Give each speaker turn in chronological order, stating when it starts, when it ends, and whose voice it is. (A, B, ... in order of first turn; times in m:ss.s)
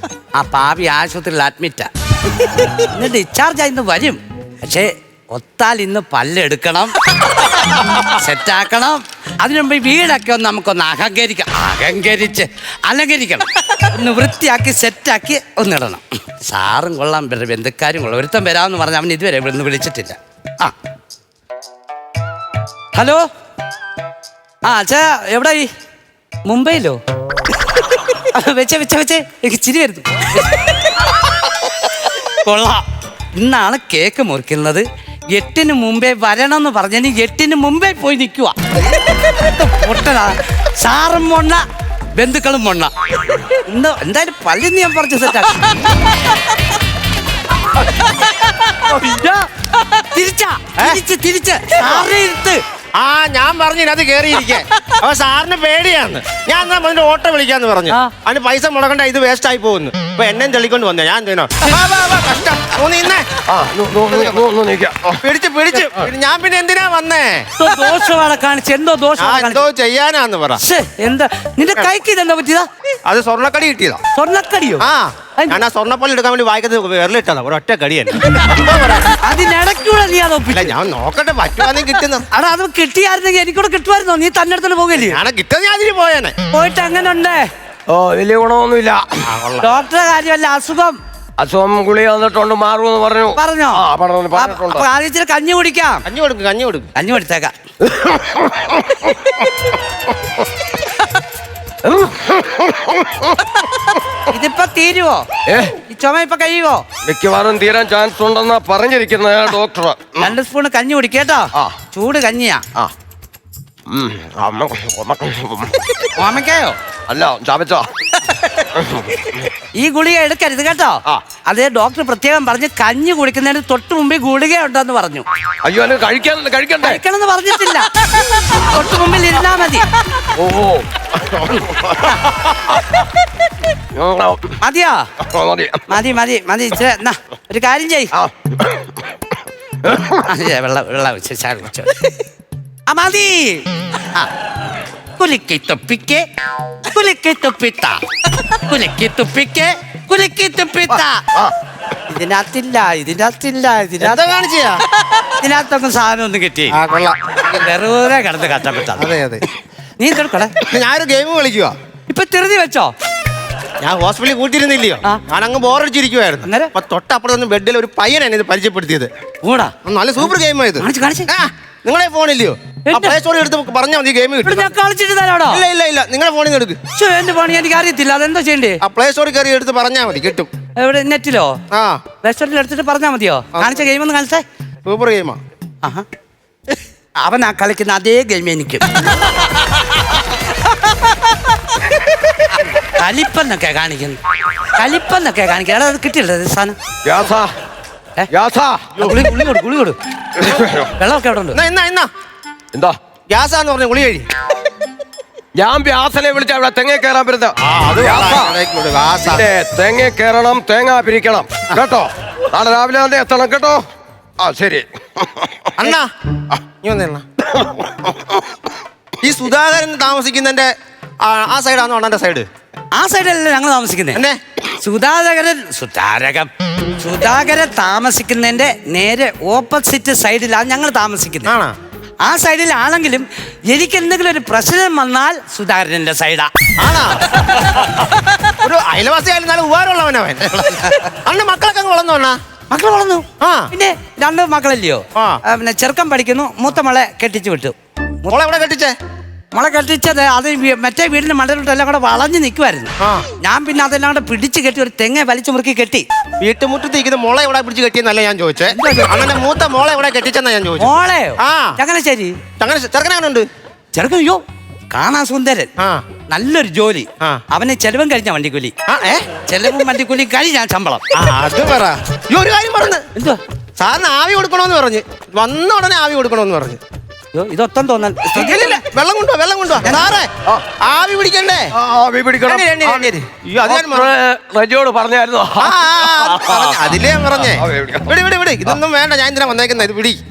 0:00.4-0:01.9 A
0:02.7-0:06.9 A
0:07.7-0:20.7 A
0:22.9-0:23.2 A
0:24.6-0:25.7 A
0:26.4-0:27.0 A
0:27.8-0:31.1 A
0:32.3-0:32.8 A
0:33.4-0:38.6 A
0:39.1-0:41.6 A
0:42.1-0:46.0 A
0:47.7-0:52.6 A
0:50.8-0:51.0 B
0:51.8-0:52.1 B
0:53.0-1:03.3 B
1:03.5-1:05.2 C
1:04.1-1:04.4 B
1:05.2-1:07.5 B
1:07.6-1:09.6 A
1:09.2-1:10.6 B
1:10.6-1:12.7 A
1:13.0-1:14.0 B
1:14.1-1:14.8 A
1:14.8-1:19.2 B
1:19.2-1:20.7 A
1:20.5-1:22.3 B
1:22.3-1:25.2 A
1:24.9-1:26.4 B
1:26.5-1:27.5 A
1:27.9-1:29.3 C
1:29.2-1:29.7 B
1:29.6-1:31.0 A
1:31.4-1:34.8 C
1:33.3-1:36.0 A
1:36.0-1:36.9 B
1:36.9-1:37.5 A
1:37.8-1:39.1 C
1:41.8-1:44.0 C
1:44.2-1:45.2 A
1:45.4-1:45.8 C
1:45.8-1:46.8 A
1:47.0-1:50.3 C
1:50.2-1:52.6 A
1:53.9-1:55.8 C
1:56.1-1:56.8 A
1:57.1-1:57.9 C
1:58.3-1:58.6 A
1:58.7-1:59.5 C
1:59.8-2:05.2 A
2:05.6-2:07.0 C
2:06.8-2:09.8 A
2:10.3-2:12.1 C
2:11.5-2:12.4 A
2:13.9-2:14.6 C
2:14.6-2:15.1 A
2:15.2-2:15.9 C
2:15.9-2:18.1 A
2:18.1-2:19.0 C
2:19.8-2:20.2 C
2:20.2-2:22.1 A
2:22.9-2:24.3 A
2:25.2-2:26.2 A
2:26.8-2:31.2 A
2:30.9-2:31.5 C
2:32.1-2:34.3 A
2:34.0-2:34.8 B
2:34.9-2:36.8 A
2:36.7-2:37.6 B
2:37.4-2:39.1 A
2:39.0-2:39.4 B
2:40.0-2:40.6 A
2:40.6-2:41.7 B
2:42.1-2:42.9 A
2:43.8-2:49.1 B
2:46.4-2:46.7 A
2:49.4-2:49.7 A
2:49.8-2:54.7 B
2:50.8-2:51.3 A
2:52.9-2:53.2 A
2:54.4-2:55.6 A
2:55.5-2:56.8 B
2:56.9-2:58.8 A
2:58.8-3:00.5 B
3:00.8-3:01.6 A
3:01.7-3:02.0 B
3:02.2-3:04.4 A
3:03.5-3:03.8 B
3:04.8-3:05.4 B
3:07.2-3:08.8 A
3:12.7-3:14.2 A
3:14.7-3:16.8 A
3:17.0-3:17.5 C
3:18.3-3:18.9 C
3:19.0-3:20.0 A
3:20.4-3:20.9 C
3:20.9-3:21.6 A
3:21.5-3:22.1 B
3:23.3-3:24.2 B
3:25.6-3:28.6 C
3:27.6-3:29.5 B
3:29.2-3:33.8 C
3:34.4-3:35.7 C
3:35.8-3:36.1 B
3:36.8-3:37.2 B
3:39.2-3:40.7 B
3:41.2-3:42.5 B
3:42.9-3:44.2 A
3:44.1-3:44.4 B
3:44.8-3:51.5 A
3:51.4-3:51.7 B
3:52.2-3:56.5 A
3:56.8-3:57.4 B
3:57.5-3:58.2 A
3:58.6-4:02.4 B
4:02.7-4:08.4 A
4:03.4-4:03.7 B
4:08.3-4:08.9 B
4:09.5-4:16.0 A
4:13.0-4:13.3 B
4:16.4-4:21.8 B
4:18.7-4:19.3 A
4:20.8-4:22.4 A
4:22.6-4:23.5 B
4:23.9-4:25.7 A
4:25.8-4:26.0 B
4:26.3-4:28.7 A
4:28.9-4:29.3 B
4:29.4-4:31.0 A
4:31.1-4:33.0 B
4:33.1-4:33.4 A
4:33.8-4:36.8 B
4:37.3-4:38.8 A
4:38.3-4:41.7 B
4:39.8-4:40.1 A
4:41.7-4:43.1 C
4:42.4-4:44.1 B
4:43.6-4:48.2 C
4:45.6-4:50.2 B